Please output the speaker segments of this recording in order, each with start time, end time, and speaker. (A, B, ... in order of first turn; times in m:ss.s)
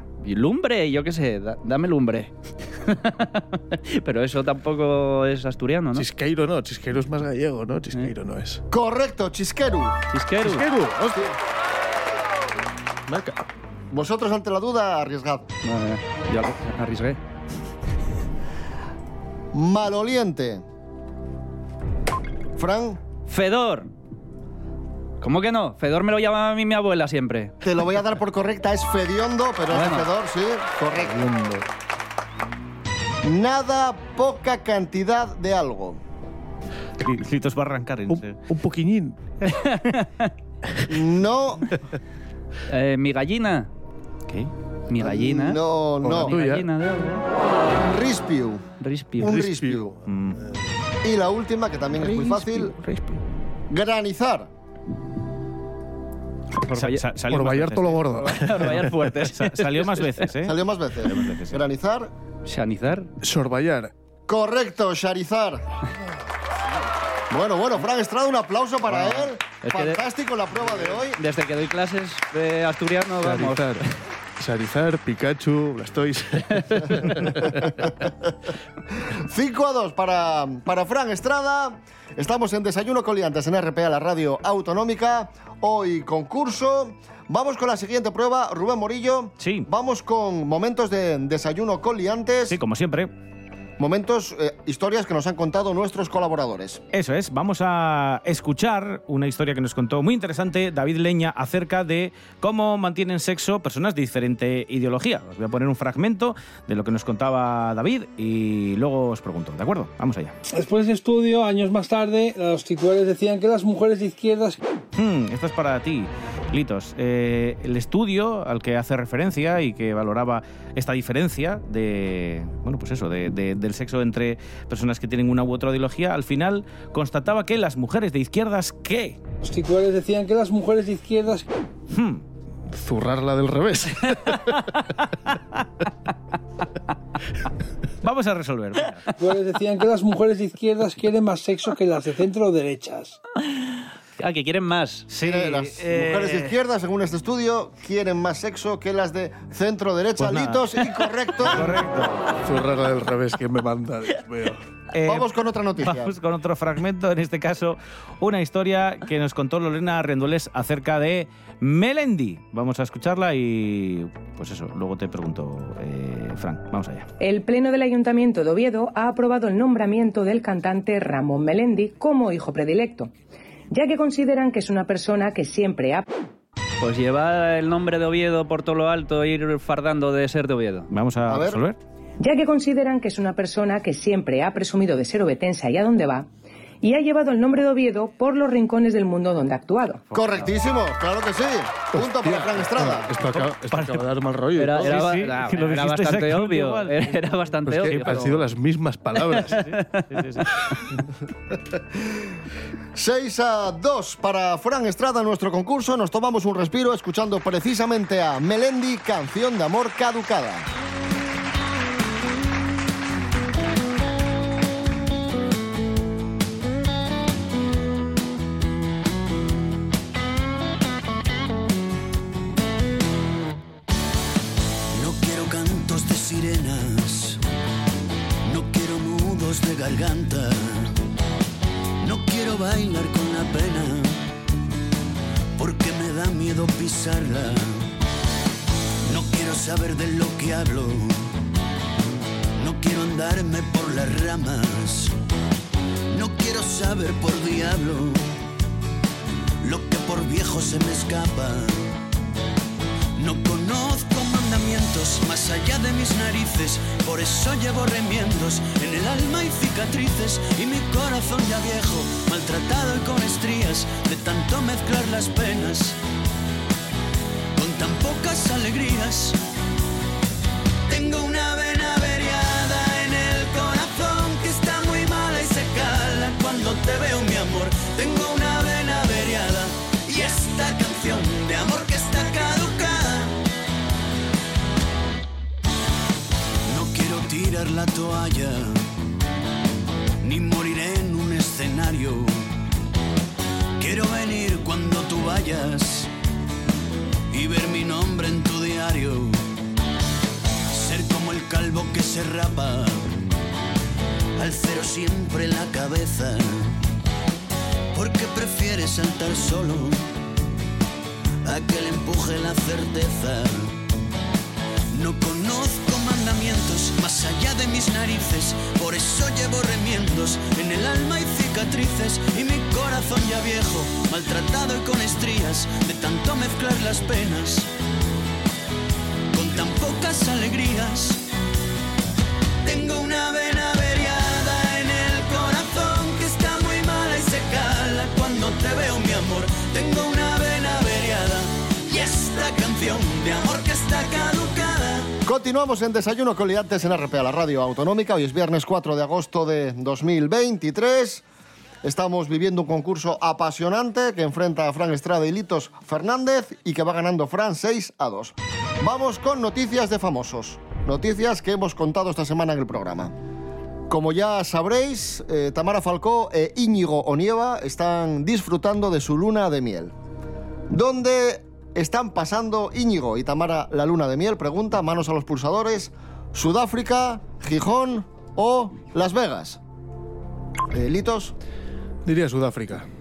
0:00.2-0:06.1 A
0:05.9-0:08.6 B
0:08.7-0:10.0 C
0:10.1-0:10.7 A
0:10.4-0:11.3 B
0:13.1-0:13.4 B
0:13.9-0:15.5 C
0:15.6-0:17.2 A
0:19.5-0:20.6 C
0:22.6-0:23.0 C
0:23.3-0:23.9 A
0:25.2-0:27.5 A
0:27.6-0:31.3 C
0:29.7-0:30.1 A
0:31.0-0:31.7 B
0:33.2-0:36.0 C
0:37.0-0:38.4 D
0:38.1-0:39.2 B
0:39.5-0:40.3 A
0:40.9-0:41.7 C
0:42.7-0:43.7 A
0:44.9-0:47.2 A
0:45.0-0:46.4 C
0:46.0-0:46.7 B
0:47.9-0:48.7 C
0:48.8-0:49.4 A
0:49.2-0:50.0 C
0:49.2-0:50.6 B
0:50.1-0:50.4 D
0:51.0-0:52.7 C
0:52.0-0:53.2 B
0:53.7-0:54.5 C
0:56.6-0:57.0 A
0:56.8-0:58.4 D
0:57.3-0:58.9 B
0:58.2-1:00.2 A
0:59.2-1:01.6 D
1:00.4-1:02.1 C
1:02.5-1:03.1 A
1:03.2-1:03.9 B
1:04.3-1:05.6 C
1:07.3-1:11.2 C
1:09.6-1:10.0 A
1:11.2-1:13.9 A
1:13.2-1:13.9 B
1:14.4-1:17.9 B
1:19.0-1:32.6 C
1:29.4-1:29.7 D
1:32.5-1:33.1 D
1:33.8-1:36.8 C
1:36.9-1:50.3 D
1:50.5-1:54.6 E
1:55.0-2:09.2 D
2:09.4-2:11.5 E
2:11.9-2:12.2 D
2:12.7-2:14.7 B
2:18.0-2:19.1 D
2:19.2-2:23.2 E
2:24.2-2:25.1 A
2:25.1-2:26.6 D
2:25.2-2:31.8 C
2:30.2-2:32.3 D
2:32.4-2:34.6 B
2:34.9-2:35.3 D
2:35.0-2:36.1 C
2:35.8-2:47.1 D
2:47.2-2:53.1 F
2:53.7-2:56.0 F
2:56.8-3:00.9 A
3:00.9-3:01.8 D
3:01.3-3:01.6 C
3:02.2-3:06.3 F
3:06.8-3:10.0 F
3:10.1-3:13.1 C
3:10.1-3:10.4 D
3:11.9-3:15.3 B
3:13.3-3:14.0 D
3:14.6-3:18.4 A
3:14.8-3:17.3 D
3:17.6-3:19.8 B
3:17.9-3:18.2 D
3:19.3-3:20.2 A
3:19.4-3:20.5 D
3:23.0-3:30.7 C
3:44.9-3:47.4 G
3:48.4-3:51.0 G
3:52.0-3:54.2 G
3:55.6-3:57.9 G
3:59.0-4:01.4 G
4:02.6-4:05.1 G
4:06.1-4:08.4 G
4:09.6-4:12.0 G
4:13.2-4:26.0 G
4:27.6-4:29.4 G
4:30.9-4:43.4 G
4:46.7-4:48.9 G
4:50.2-4:52.5 G
4:53.8-4:56.1 G
4:57.3-4:59.5 G
5:00.7-5:03.3 G
5:04.4-5:06.8 G
5:07.9-5:10.0 G
5:11.4-5:13.8 G
5:14.9-5:27.7 G
5:29.3-5:31.2 G
5:32.6-5:45.1 G
5:45.2-5:51.2 C
5:51.8-6:03.1 C
6:03.9-6:09.9 C
6:10.7-6:19.6 C
6:20.7-6:21.4 C
6:22.0-6:22.9 B